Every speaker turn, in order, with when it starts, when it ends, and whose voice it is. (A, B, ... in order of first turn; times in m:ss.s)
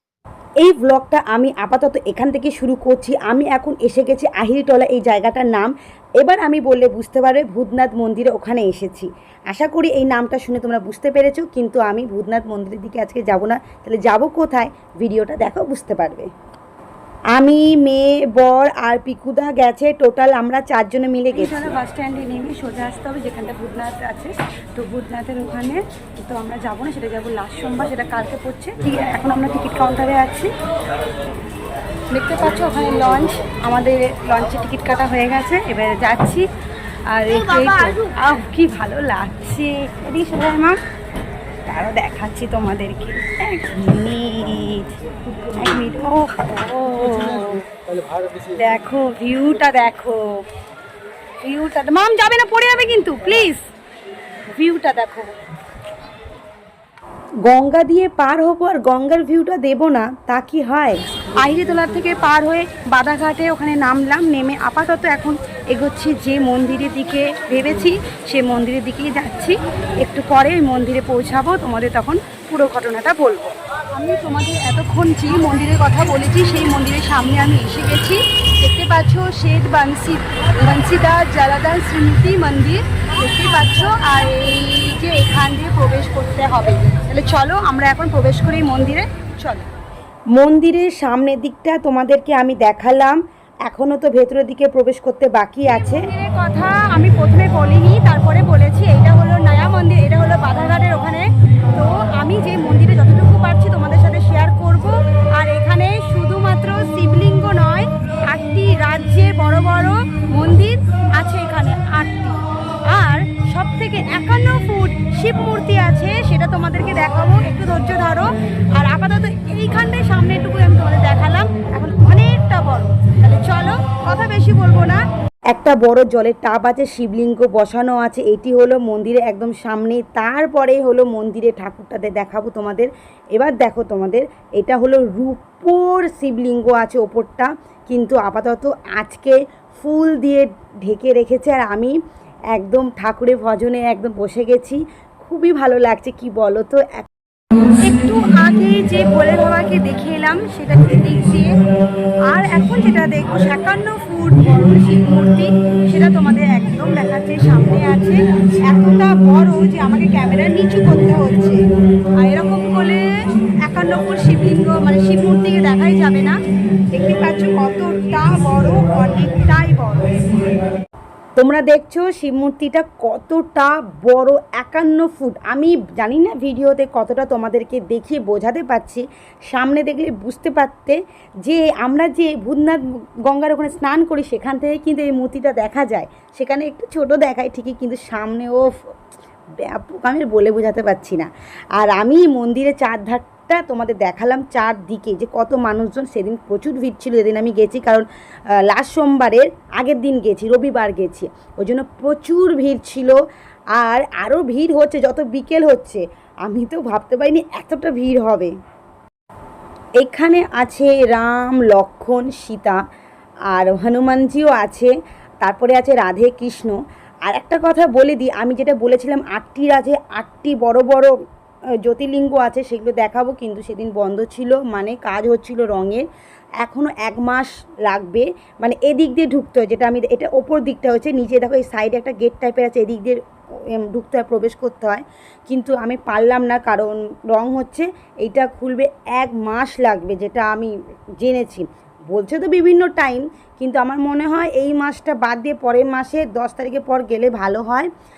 0:00.6-0:16.3 A
0:17.3-0:21.8 A
0:21.3-0:30.5 B
0:32.1-0:33.8 B
0:33.8-0:36.4 A
0:34.4-0:34.6 B
0:37.2-0:40.8 A
0:37.3-0:38.2 B
0:41.7-0:44.9 A
0:45.6-0:46.5 A
0:46.5-0:47.6 B
0:48.6-0:50.2 B
0:51.4-0:53.6 B
0:54.5-0:55.3 B
0:57.4-1:01.0 A
1:01.4-1:09.5 B
1:10.0-1:29.7 B
1:30.3-1:36.1 A
1:35.7-1:41.2 B
1:41.7-2:05.0 B
2:05.5-2:21.9 A
2:22.5-2:27.1 A
2:27.8-2:31.5 B
2:32.3-2:41.6 B
2:42.2-2:46.3 B
2:47.0-2:49.6 A
2:48.1-2:50.2 B
2:51.4-3:08.8 A
3:09.6-3:18.0 A
3:18.7-3:23.2 A
3:23.8-3:28.5 A
3:30.0-3:32.8 A
3:33.5-3:34.9 A
3:35.4-3:36.8 A
3:37.3-3:41.1 A
3:41.8-3:46.0 A
3:46.6-3:53.2 A
3:53.7-4:07.9 A